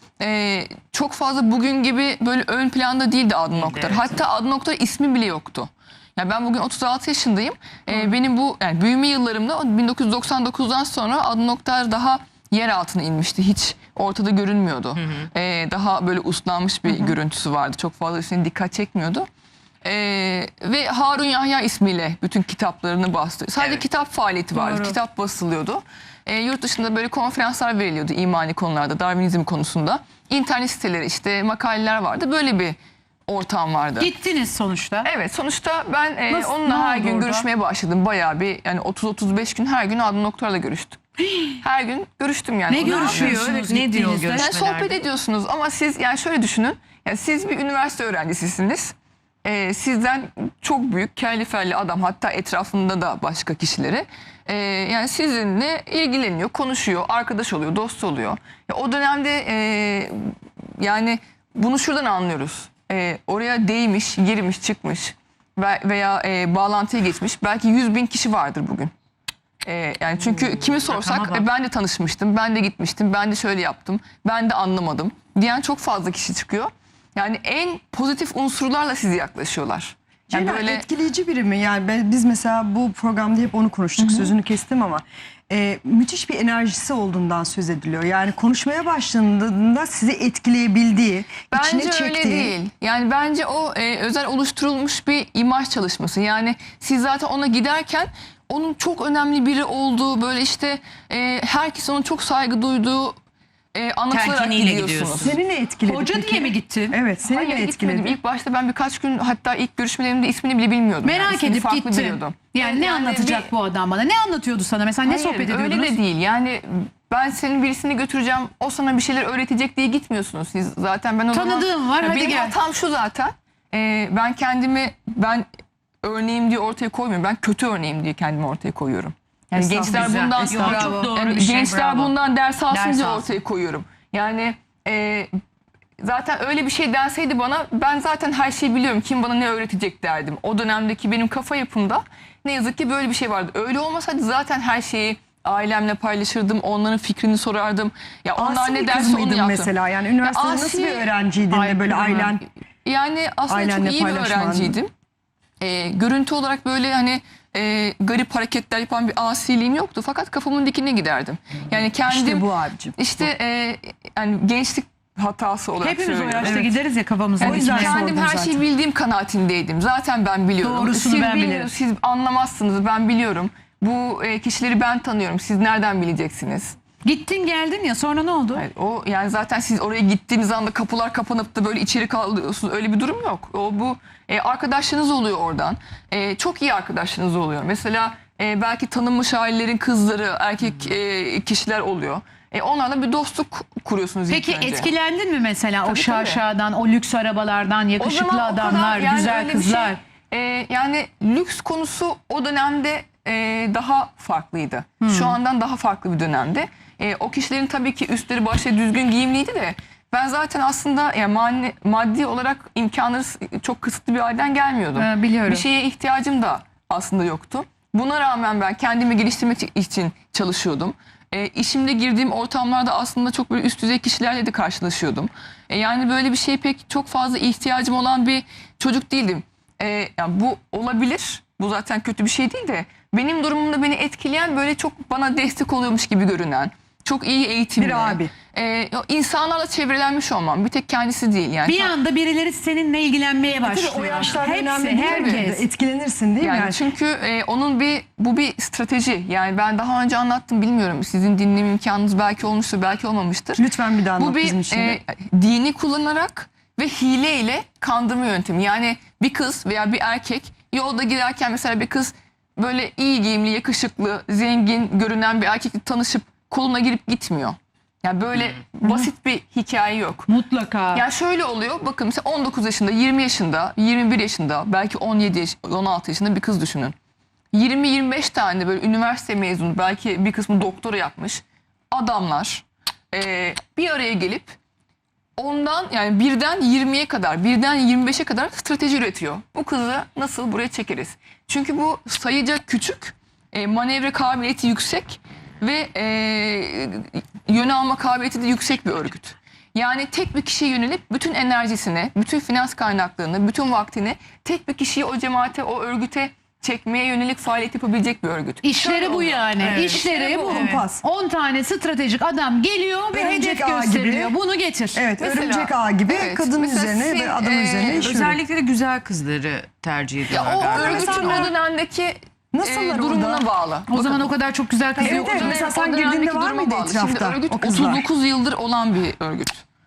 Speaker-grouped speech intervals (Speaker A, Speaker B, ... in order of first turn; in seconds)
Speaker A: 0.2-19.3, 19.8-34.1, 35.0-41.0, 41.6-43.4, 44.3-68.9, 69.6-80.8, 84.0-84.3, 91.5-103.2, 103.7-105.3, 107.3-113.5, 115.0-125.5, 126.0-135.3, 136.0-149.7, 150.2-151.1, 151.7-152.3, 152.8-154.9, 155.6-166.7, 167.4-176.8, 178.5-194.9, 195.8-196.4, 198.0-241.9, 245.1-245.4, 246.4-270.3, 270.9-276.9, 277.5-284.6, 285.4-310.6, 315.2-318.1, 320.3-324.3, 325.0-329.6
Speaker B: 3.5-4.0, 42.8-45.0, 70.7-71.4, 104.1-105.3, 129.6-132.1, 132.7-133.4, 309.6-310.8, 317.9-321.5
Speaker C: 24.5-25.0, 34.0-35.1, 36.3-37.5, 42.7-44.5, 105.8-107.0, 111.0-116.0, 121.3-122.6, 129.6-131.1, 151.5-152.2, 165.8-168.0, 170.6-171.7, 177.0-178.6, 194.3-200.0, 205.0-205.4, 214.9-215.6, 241.6-245.6, 270.3-271.0, 308.6-315.0, 323.9-325.6
Speaker D: 80.3-92.5, 105.2-108.1, 148.3-152.4, 153.5-154.8, 162.0-163.0, 167.4-168.6, 237.8-238.3, 243.6-246.8, 253.6-255.0, 310.0-311.0, 313.1-314.3, 314.9-318.4, 320.7-321.5, 322.5-323.4, 324.9-328.1